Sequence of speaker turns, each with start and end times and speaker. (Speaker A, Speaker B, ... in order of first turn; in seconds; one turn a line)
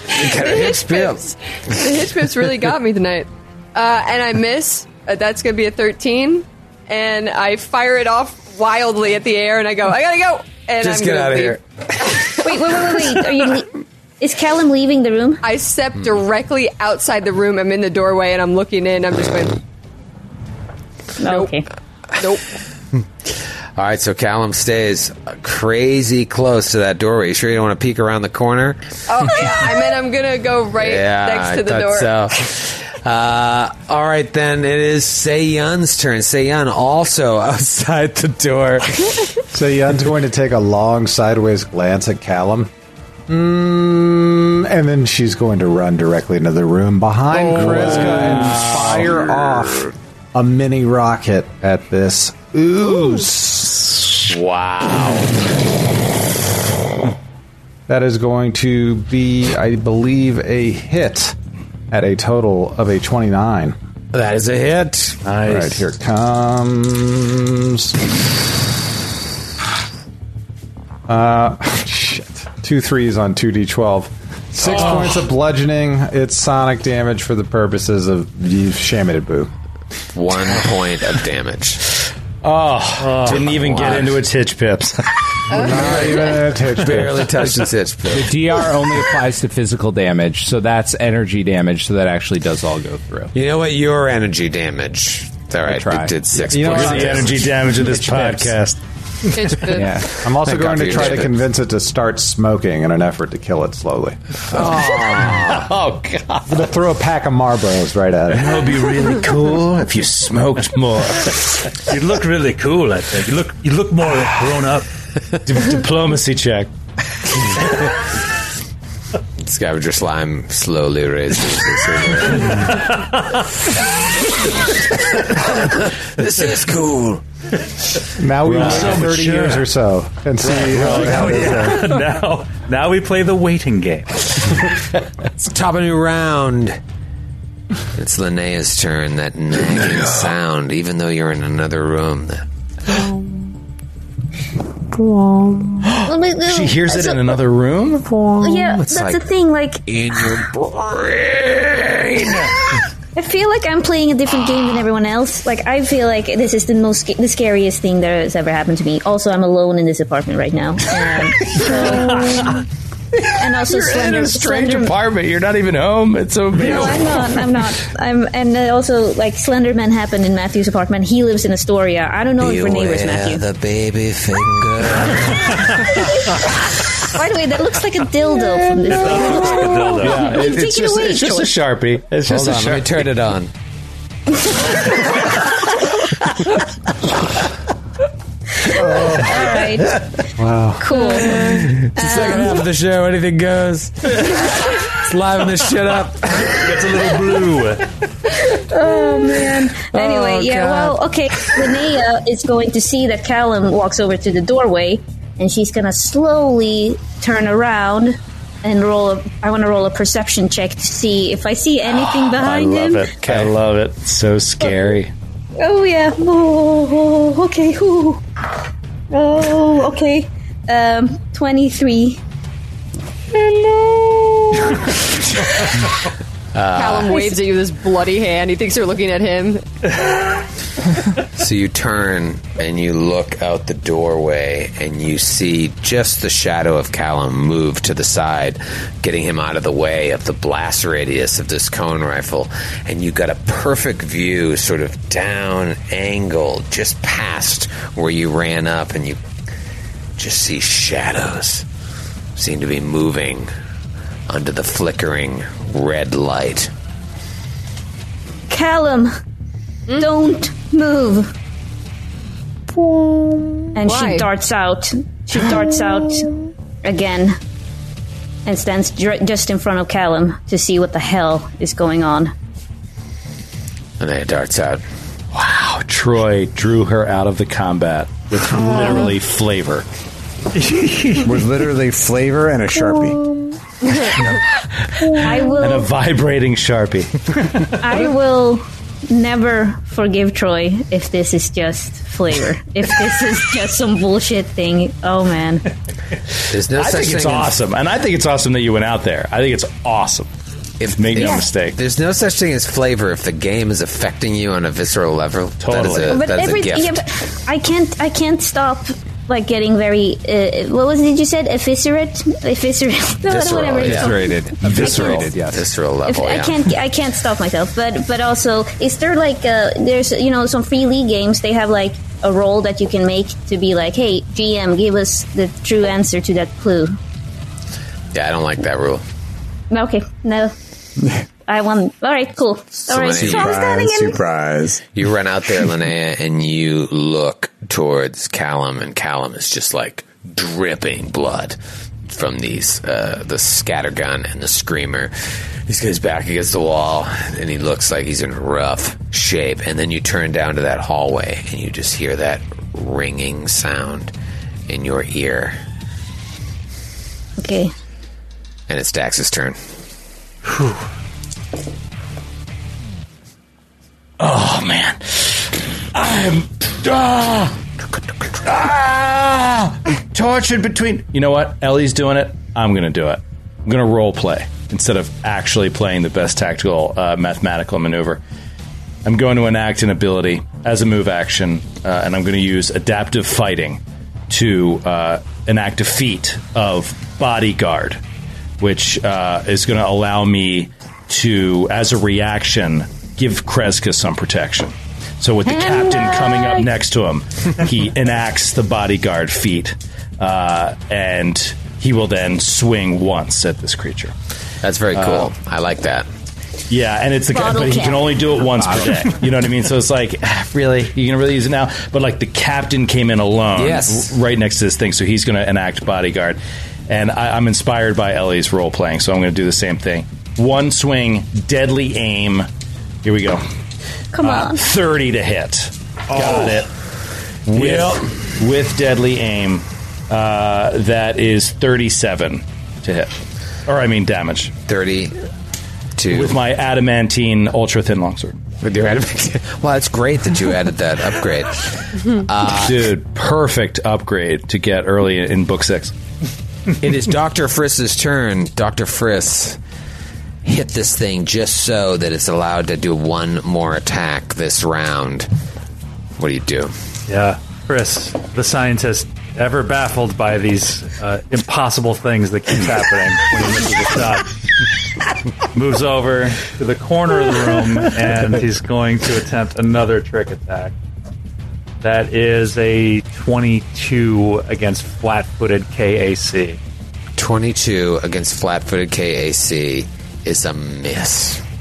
Speaker A: 0.1-1.3
Speaker B: 0.2-11.6
Speaker A: 10.8-13.1
Speaker C: 12.4-15.4
Speaker B: 15.4-19.6
Speaker C: 21.2-21.6
Speaker B: 21.2-21.5
Speaker B: 22.2-22.4
Speaker A: 23.8-28.8
Speaker B: 29.1-32.1
Speaker A: 30.8-39.3
Speaker D: 39.5-42.7
Speaker D: 43.3-53.9
Speaker E: 47.5-48.6
Speaker A: 47.6-49.6
Speaker A: 54.3-55.3
Speaker D: 57.9-61.3
Speaker D: 61.9-63.8
Speaker A: 64.1-65.2
Speaker F: 65.3-65.8
Speaker D: 65.4-68.0
Speaker D: 71.1-79.5
Speaker A: 80.1-81.8
Speaker E: 82.4-85.2
Speaker F: 83.0-83.3
Speaker A: 83.2-84.2
Speaker D: 85.5-87.4
Speaker B: 85.5-86.2
Speaker A: 85.7-88.3
Speaker G: 88.1-93.3
Speaker A: 93.3-97.5
Speaker G: 95.6-96.1
Speaker D: 96.5-98.5
Speaker E: 96.5-98.8
Speaker B: 99.3-99.9
Speaker G: 99.7-100.1
Speaker D: 100.0-104.2
Speaker A: 100.3-101.3
Speaker E: 104.5-106.6
Speaker A: 104.6-105.6
Speaker D: 106.5-108.7
Speaker E: 108.3-111.5
Speaker F: 108.7-109.1
Speaker F: 111.9-114.9
Speaker E: 115.5-116.7
Speaker A: 119.4-122.9
Speaker F: 122.7-123.4
Speaker A: 125.3-127.2
Speaker D: 128.2-131.9
Speaker F: 128.4-129.7
Speaker E: 128.5-129.0
Speaker F: 130.4-134.3
Speaker E: 130.9-131.8
Speaker A: 135.4-136.8
Speaker A: 137.9-143.2
Speaker A: 145.0-145.8
Speaker E: 145.8-148.1
Speaker C: 146.0-147.3
Speaker A: 148.1-149.2
Speaker C: 148.4-150.4
Speaker A: 149.9-152.8
Speaker C: 153.1-162.6
Speaker E: 161.4-162.6
Speaker E: 163.2-167.7
Speaker C: 163.4-164.9
Speaker C: 166.5-173.4
Speaker A: 172.4-175.9
Speaker C: 177.1-181.6
Speaker F: 178.9-180.3
Speaker E: 179.9-183.1
Speaker A: 182.3-183.5
Speaker C: 188.6-190.0
Speaker E: 188.9-189.2
Speaker D: 190.4-190.8
Speaker C: 190.8-192.6
Speaker A: 191.2-196.9
Speaker F: 196.5-197.9
Speaker C: 198.5-213.1
Speaker E: 211.9-215.1
Speaker C: 215.6-218.2
Speaker C: 219.1-222.2
Speaker C: 223.7-224.0
Speaker A: 226.5-227.2
Speaker B: 226.7-229.7
Speaker C: 227.1-227.4
Speaker A: 231.4-249.2
Speaker A: 250.2-251.7
Speaker A: 252.4-253.5
Speaker A: 254.3-256.7
Speaker C: 258.5-259.1
Speaker C: 259.9-261.3
Speaker C: 263.7-266.3
Speaker B: 263.8-264.3
Speaker C: 266.8-267.4
Speaker C: 268.4-272.3
Speaker A: 274.0-274.8
Speaker E: 275.3-279.9
Speaker F: 280.6-281.3
Speaker H: 281.2-283.2
Speaker E: 284.9-287.7
Speaker C: 285.1-285.9
Speaker C: 287.8-295.7
Speaker A: 296.5-297.6
Speaker E: 296.7-300.3
Speaker A: 300.8-307.0
Speaker E: 300.9-301.8
Speaker C: 301.2-301.5
Speaker E: 305.6-306.2
Speaker C: 306.1-315.3
Speaker A: 313.3-316.7
Speaker G: 313.8-315.6
Speaker C: 316.1-326.9
Speaker A: 328.1-329.0
Speaker C: 329.7-330.5
Speaker C: 331.4-334.2
Speaker A: 332.8-333.6
Speaker H: 333.2-334.8
Speaker A: 334.9-341.6
Speaker A: 342.1-345.1
Speaker A: 345.7-354.1
Speaker A: 354.7-355.6
Speaker C: 357.4-357.7
Speaker A: 358.7-359.6
Speaker E: 364.2-367.6
Speaker E: 368.4-378.2
Speaker E: 379.1-388.0
Speaker E: 388.6-404.1
Speaker C: 395.5-396.6
Speaker A: 404.6-406.1
Speaker E: 404.9-405.3
Speaker E: 406.7-422.5
Speaker C: 407.3-408.3
Speaker A: 413.6-414.1
Speaker E: 423.0-423.4
Speaker C: 424.1-424.6
Speaker E: 424.2-426.7
Speaker E: 427.4-434.6
Speaker A: 427.5-428.0
Speaker A: 434.7-435.2
Speaker A: 436.0-436.4
Speaker E: 436.1-438.4
Speaker A: 438.6-442.9
Speaker E: 442.6-445.9
Speaker A: 446.8-449.6
Speaker A: 450.4-455.3
Speaker A: 456.2-456.7
Speaker F: 457.1-464.3
Speaker F: 465.5-470.7
Speaker F: 471.8-476.6
Speaker A: 477.2-481.4